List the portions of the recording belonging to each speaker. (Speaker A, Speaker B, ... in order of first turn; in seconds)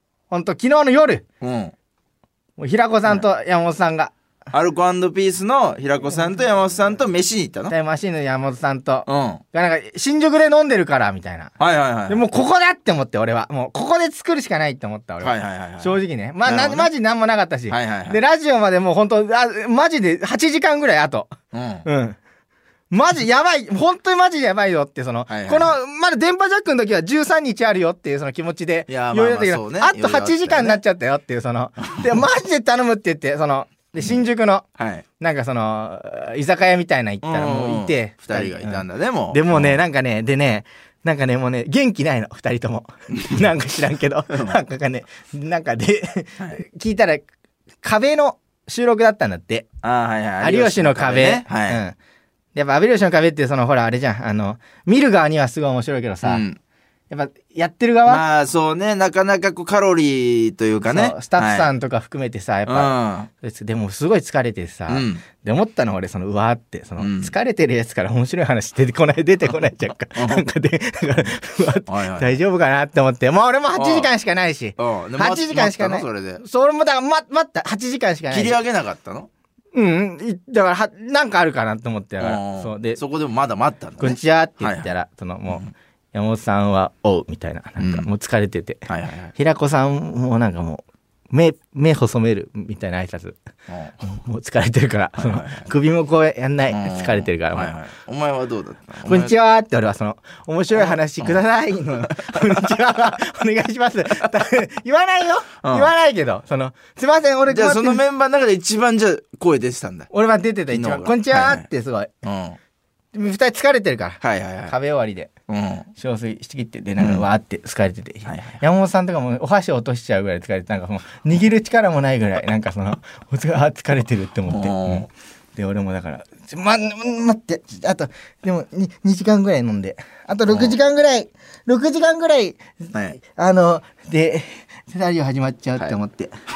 Speaker A: 0.3-1.2, 2.6-4.1, 7.7-11.5, 12.1-21.3, 21.9-22.2, 22.9-34.6, 35.2-47.3, 47.8-49.7, 50.4-52.0, 52.5-56.4, 57.1-58.2, 60.8-78.6, 79.7-83.0, 84.0-93.4, 94.0-97.8, 99.1-108.0, 110.1-112.1, 113.1-115.3, 116.0-136.3
Speaker B: 1.4-1.7, 4.5-7.7, 9.1-9.4, 11.6-12.2, 15.2-16.9, 17.7-18.2, 21.5-21.9, 25.3-25.7, 28.9-30.8, 34.8-35.0, 37.2-39.8, 44.3-44.6, 49.8-51.8, 56.2-56.6, 58.1-61.7, 62.6-63.3, 64.9-65.2, 67.0-67.3, 70.1-70.5, 71.9-72.4, 73.8-74.1, 74.8-76.4, 78.3-79.3, 82.2-84.9, 87.8-88.1, 88.9-89.3, 93.7-94.0, 95.2-95.7, 96.7-99.3, 100.7-101.4, 102.0-102.7, 105.6-105.9, 107.5-110.1, 110.7-111.7, 112.2-112.6, 114.2-114.8, 115.5-115.9, 117.0-117.2, 118.2-118.6, 124.5-125.1, 130.5-130.8